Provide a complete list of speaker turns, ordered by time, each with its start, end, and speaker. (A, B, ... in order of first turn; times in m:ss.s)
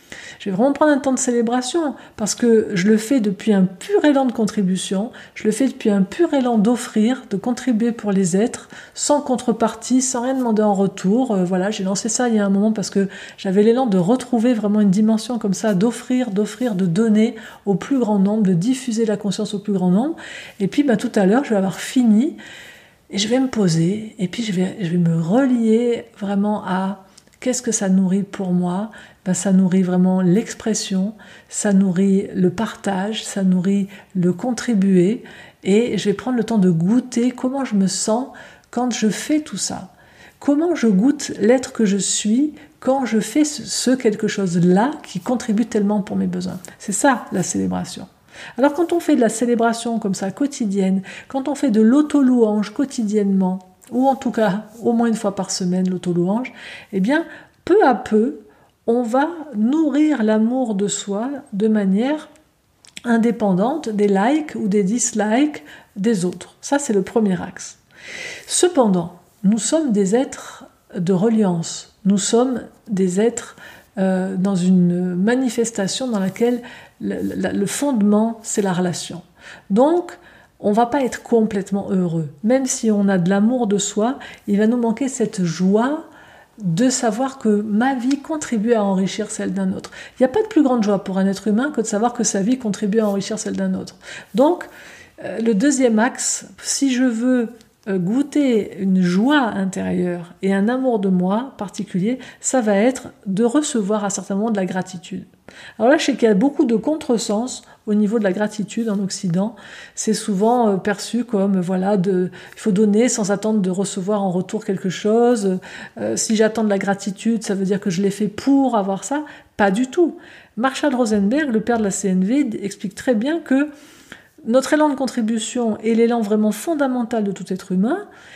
0:00.4-0:22.4 A
0:23.1-1:02.3 A
1:03.0-1:07.8 A
1:08.5-1:26.1 A
1:26.6-1:34.7 A
1:35.2-2:03.7 A
2:04.4-2:08.0 A